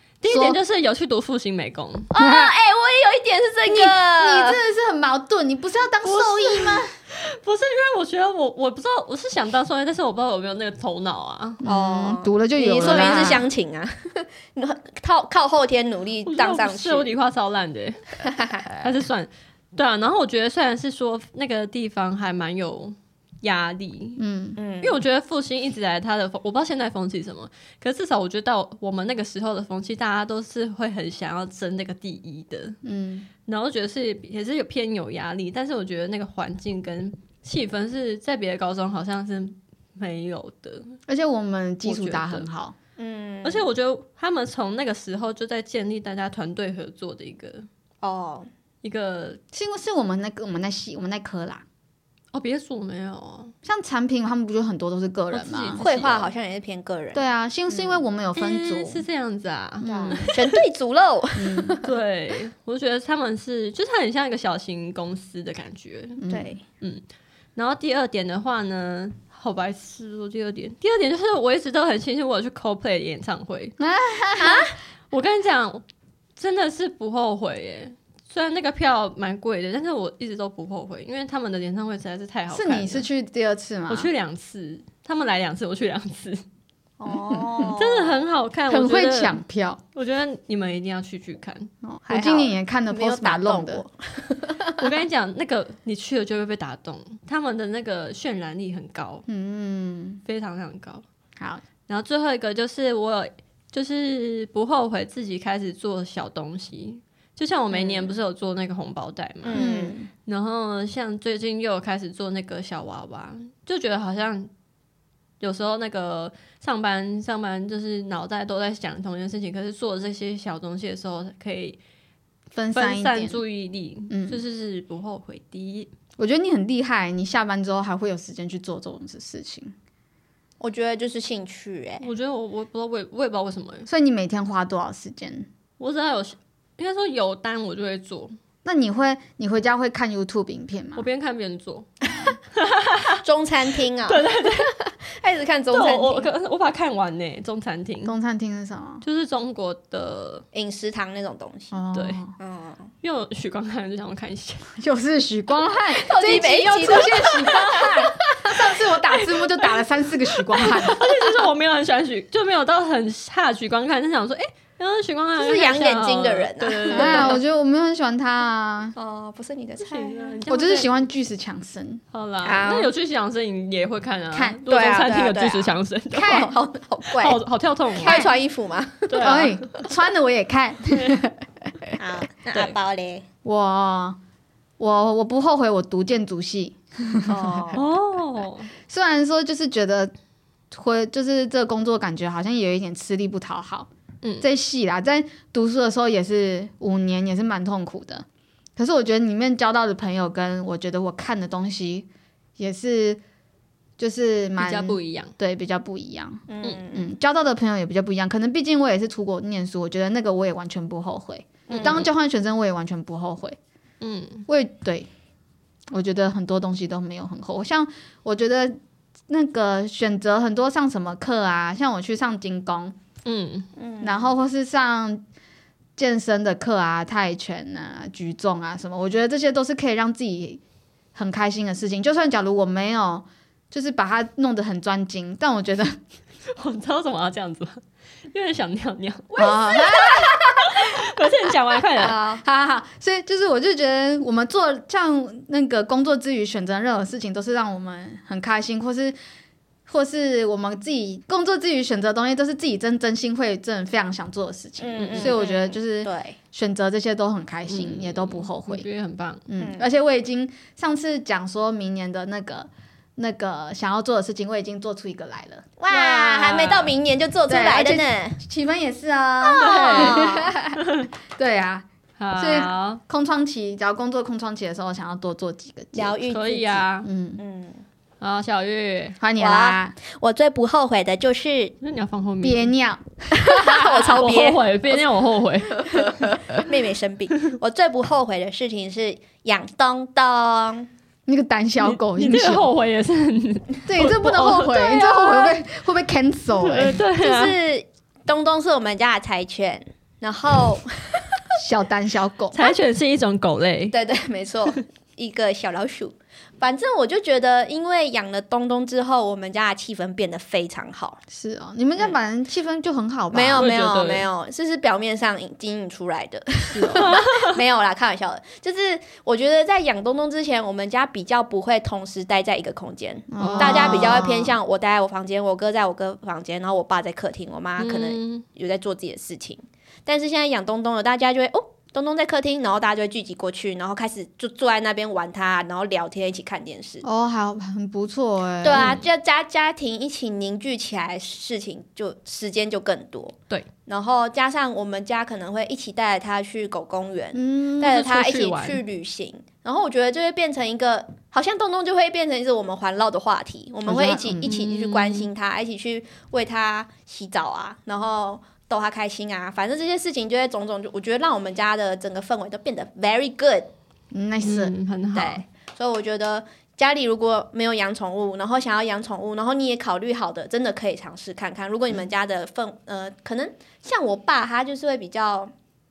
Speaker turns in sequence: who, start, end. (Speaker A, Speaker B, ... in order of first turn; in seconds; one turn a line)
Speaker A: 0.2-2.1
Speaker B: 0.2-0.6
Speaker C: 2.1-4.6
Speaker B: 2.2-2.5
Speaker B: 3.7-6.9
Speaker A: 6.0-11.6
Speaker B: 11.6-13.5
Speaker C: 11.7-17.1
Speaker A: 12.8-13.2
Speaker A: 16.3-18.1
Speaker C: 18.2-18.7
Speaker A: 18.7-24.2
Speaker B: 24.2-24.6
Speaker C: 24.6-25.0
Speaker A: 24.8-32.8
Speaker B: 32.8-33.3
Speaker A: 33.5-41.0
Speaker B: 41.1-42.8
Speaker A: 41.8-42.5
Speaker C: 43.0-43.7
Speaker A: 43.4-47.7
Speaker C: 48.0-48.5
Speaker A: 48.8-49.4
Speaker B: 49.5-51.6
Speaker A: 52.3-53.5
Speaker B: 53.6-55.8
Speaker A: 55.3-56.3
Speaker C: 55.8-58.0
Speaker B: 57.1-59.0
Speaker A: 58.4-60.6
Speaker B: 59.8-60.3
Speaker C: 59.9-61.8
Speaker B: 61.4-61.8
Speaker A: 61.8-66.2
Speaker B: 66.2-66.6
Speaker C: 66.3-66.6
Speaker A: 67.6-73.8
Speaker B: 73.8-74.7
Speaker C: 74.4-74.8
Speaker A: 75.1-75.8
Speaker A: 76.4-83.1
Speaker B: 82.5-84.1
Speaker A: 83.9-86.4
Speaker C: 87.0-88.2
Speaker B: 87.3-87.7
Speaker A: 87.8-89.4
Speaker B: 88.7-89.8
Speaker A: 90.0-91.7
Speaker B: 91.8-93.8
Speaker C: 92.1-94.8
Speaker A: 94.8-99.2
Speaker B: 99.3-100.2
Speaker A: 100.3-101.0
Speaker B: 101.4-101.6
Speaker A: 101.9-109.7
Speaker C: 107.7-108.2
Speaker C: 109.4-110.0
Speaker B: 109.5-110.1
Speaker A: 110.3-114.5
Speaker A: 115.4-121.8
Speaker B: 122.5-123.4
Speaker A: 122.7-125.9
Speaker B: 124.1-124.4
Speaker B: 126.2-129.8
Speaker C: 130.6-132.1
Speaker A: 132.0-133.9
Speaker B: 133.9-135.5
Speaker A: 135.8-138.3
Speaker B: 138.7-141.1
Speaker A: 141.0-141.9
Speaker A: 142.5-143.2
Speaker C: 143.2-146.3
Speaker A: 144.1-144.7
Speaker A: 145.7-148.1
Speaker B: 148.1-149.0
Speaker A: 149.0-150.4
Speaker C: 150.5-151.8
Speaker B: 151.7-152.3
Speaker A: 151.9-152.2
Speaker C: 152.4-152.9
Speaker A: 153.0-154.7
Speaker B: 154.8-161.1
Speaker C: 155.9-158.6
Speaker A: 160.6-167.4
Speaker C: 165.4-167.4
Speaker B: 166.9-169.0
Speaker C: 169.0-170.4
Speaker A: 169.8-171.0
Speaker B: 170.5-172.0
Speaker A: 172.1-176.5
Speaker C: 172.4-172.9
Speaker B: 174.3-174.6
Speaker C: 174.7-177.4
Speaker B: 176.1-176.5
Speaker A: 177.1-178.2
Speaker C: 178.0-179.3
Speaker B: 178.0-178.3
Speaker A: 179.1-179.6
Speaker B: 179.2-181.9
Speaker A: 180.9-181.2
Speaker C: 182.0-183.2
Speaker B: 183.4-184.2
Speaker B: 184.8-187.7
Speaker C: 187.3-187.8
Speaker A: 187.7-188.7
Speaker B: 188.9-190.1
Speaker B: 190.7-193.9
Speaker B: 194.4-198.3
Speaker B: 198.8-203.2
Speaker B: 204.0-213.6
Speaker A: 204.6-205.3
Speaker C: 206.5-207.1
Speaker C: 211.7-212.1
Speaker A: 211.7-212.1
Speaker A: 214.0-214.5
Speaker B: 214.5-215.1
Speaker B: 215.9-218.8
Speaker B: 219.3-223.0
Speaker A: 223.3-223.7
Speaker C: 223.8-224.3
Speaker B: 224.0-225.2
Speaker B: 226.0-230.6
Speaker B: 231.2-236.0
Speaker A: 236.6-242.2
Speaker B: 239.4-241.3
Speaker C: 242.0-242.4
Speaker B: 242.4-249.2
Speaker B: 249.9-258.9
Speaker C: 254.8-256.4
Speaker A: 255.1-255.4
Speaker A: 257.7-259.5
Speaker B: 259.5-265.7
Speaker C: 259.6-259.9
Speaker C: 265.8-268.4
Speaker A: 265.9-266.9
Speaker B: 267.5-276.2
Speaker C: 269.4-270.6
Speaker A: 269.6-271.1
Speaker A: 272.2-273.0
Speaker C: 275.9-276.8
Speaker A: 276.3-277.1
Speaker B: 277.0-277.4
Speaker C: 277.4-277.8
Speaker A: 278.2-279.2
Speaker B: 279.2-279.9
Speaker C: 279.4-281.8
Speaker A: 281.8-282.7
Speaker B: 282.4-283.9
Speaker C: 283.5-285.0
Speaker A: 283.7-286.6
Speaker C: 285.9-290.9
Speaker B: 291.3-292.7
Speaker A: 291.8-295.6
Speaker B: 293.9-297.0
Speaker A: 296.6-297.6
Speaker C: 297.2-301.2
Speaker B: 301.6-302.6
Speaker A: 302.5-303.9
Speaker C: 303.9-311.2
Speaker B: 311.3-313.7
Speaker C: 313.3-337.1
Speaker A: 313.6-314.3
Speaker A: 316.8-317.6
Speaker B: 323.3-324.6
Speaker A: 323.4-324.3
Speaker A: 327.8-328.4
Speaker B: 337.0-338.9
Speaker C: 338.6-343.4
Speaker A: 338.7-339.0
Speaker C: 343.9-363.7
Speaker B: 347.3-347.9
Speaker A: 347.8-348.8
Speaker B: 353.9-354.5
Speaker A: 354.4-355.3
Speaker B: 364.1-364.7
Speaker A: 364.4-365.4
Speaker C: 365.1-375.5